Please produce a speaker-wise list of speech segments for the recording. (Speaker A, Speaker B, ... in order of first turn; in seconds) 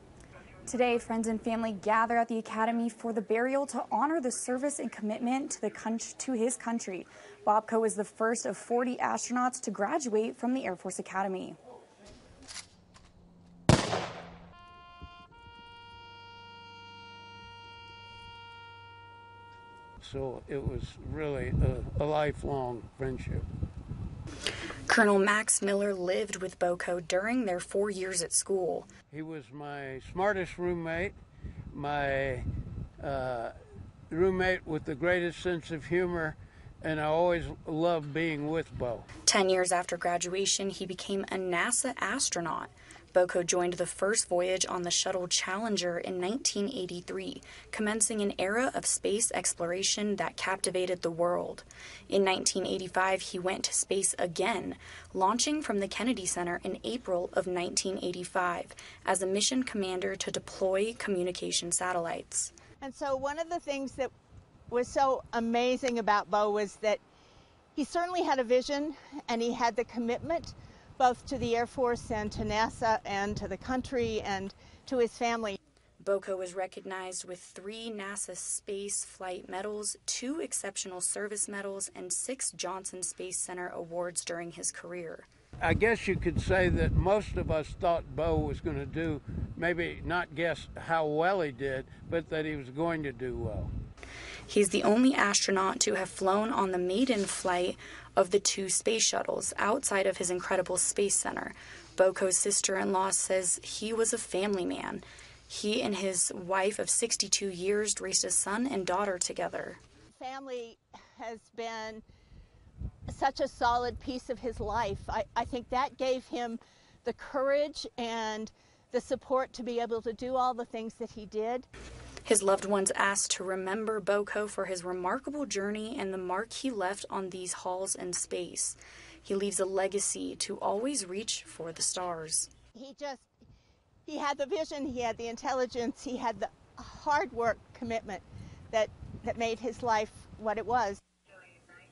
Speaker A: 0.7-11.6, 24.9-28.9, 39.2-62.5, 76.0-85.3, 94.5-109.8, 122.2-132.5
Speaker B: 20.0-23.4, 29.1-31.1, 31.7-32.5, 33.0-33.5, 34.1-39.1, 85.6-93.7
Speaker C: 62.8-64.1, 64.7-67.0, 67.7-75.6, 110.1-112.0, 113.1-121.7, 132.7-133.3, 134.0-141.0